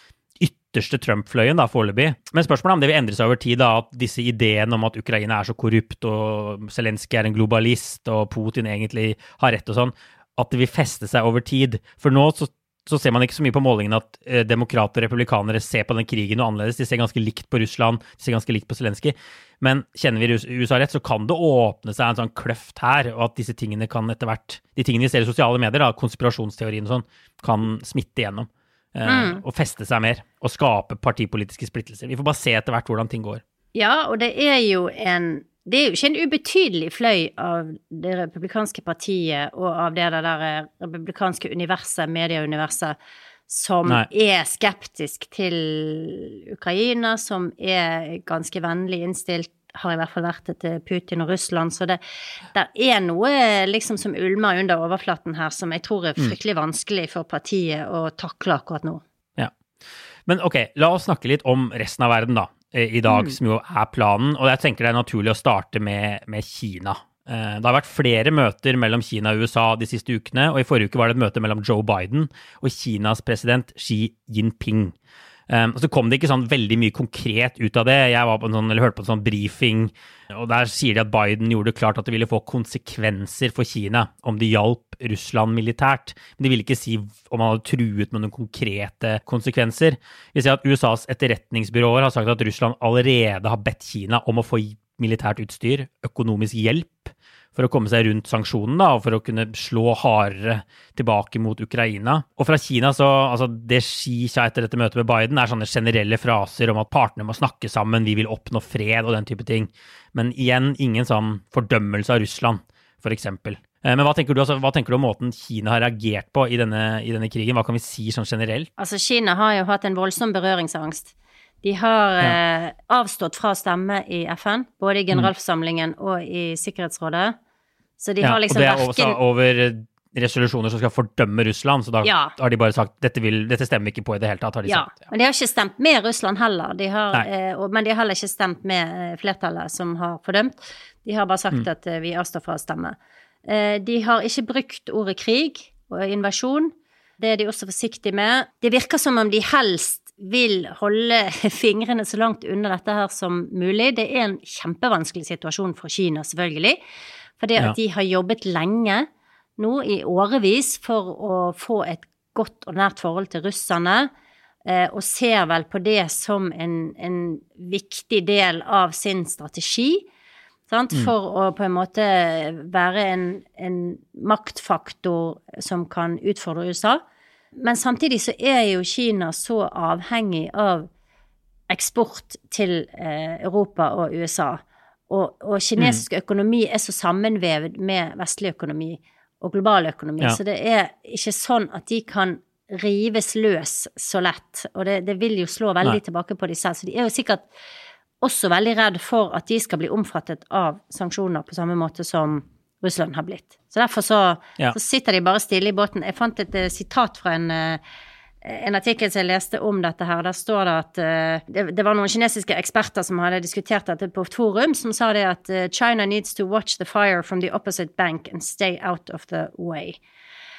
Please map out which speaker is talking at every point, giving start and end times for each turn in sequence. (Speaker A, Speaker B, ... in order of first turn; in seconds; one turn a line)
Speaker A: 0.4-33.4
Speaker B: 29.1-29.4
Speaker B: 33.8-43.0
Speaker B: 43.5-52.0
Speaker B: 52.5-59.0
Speaker A: 60.3-75.0
Speaker B: 63.1-63.4
Speaker A: 75.5-118.7
Speaker B: 118.8-127.3
Speaker B: 128.0-129.2
Speaker A: 128.2-134.9
Speaker B: 132.0-132.4
Speaker B: 134.7-142.9
Speaker B: 143.5-156.8
Speaker B: 157.4-159.1
Speaker B: 159.6-164.1
Speaker B: 164.7-170.1
Speaker B: 170.7-177.0
Speaker B: 177.6-180.9
Speaker B: 181.7-197.5
Speaker A: 185.8-186.0
Speaker B: 198.2-207.8
Speaker B: 208.4-220.0